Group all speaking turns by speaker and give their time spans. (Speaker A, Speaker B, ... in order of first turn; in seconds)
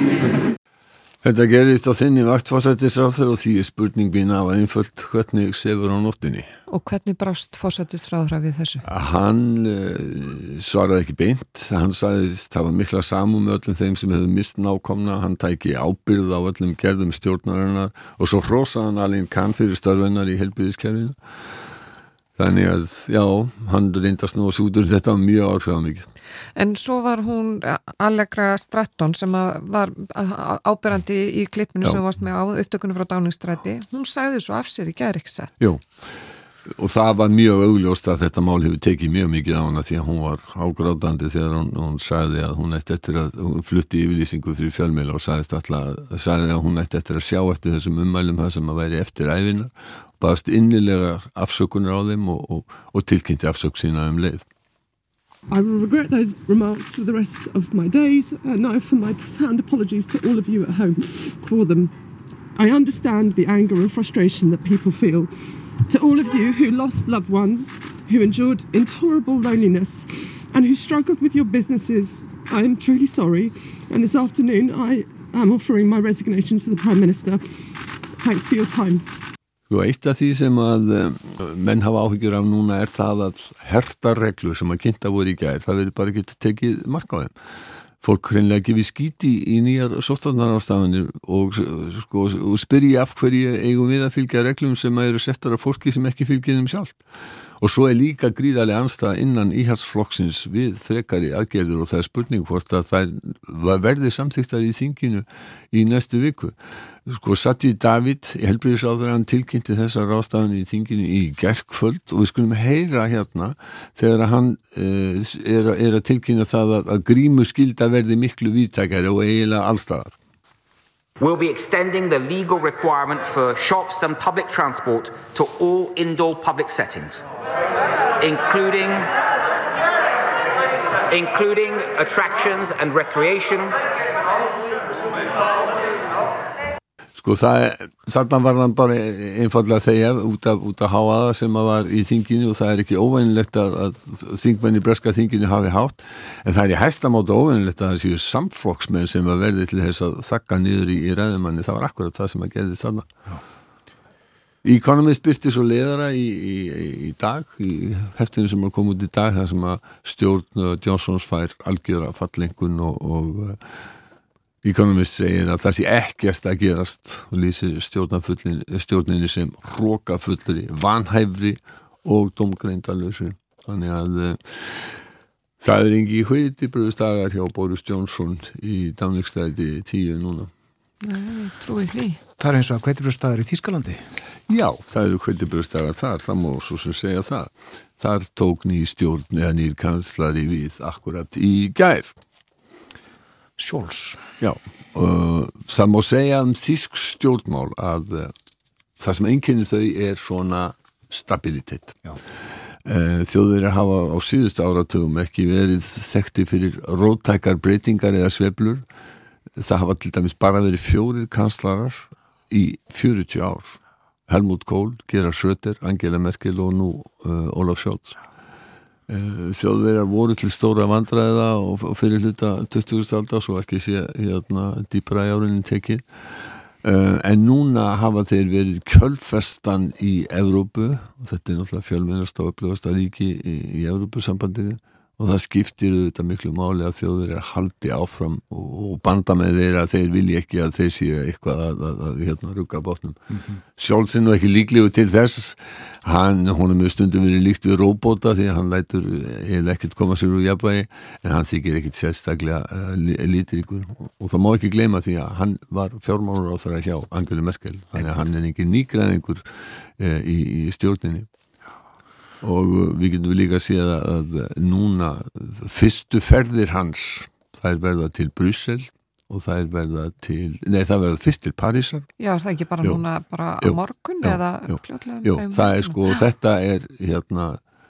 Speaker A: 1.2-6.5, 8.8-21.1, 22.4-26.1, 35.6-36.0, 36.6-54.5, 79.7-87.3, 88.0-97.0, 97.6-106.5, 107.1-120.1, 137.2-153.1, 154.6-163.6, 164.6-175.0, 175.6-180.5, 184.5-192.1, 194.4-198.3, 199.0-202.0, 202.8-208.8, 209.6-218.2, 219.1-226.0, 226.8-243.2, 243.8-259.4, 260.0-261.3, 262.4-272.1, 273.6-277.6
Speaker B: 6.7-8.8, 26.6-35.7, 181.0-182.2, 272.2-276.0
Speaker C: 55.5-61.9, 62.6-65.3, 65.9-77.4, 78.2-79.0
Speaker D: 121.2-127.2, 128.2-129.1, 131.1-133.7
Speaker E: 182.4-184.0, 193.6-194.2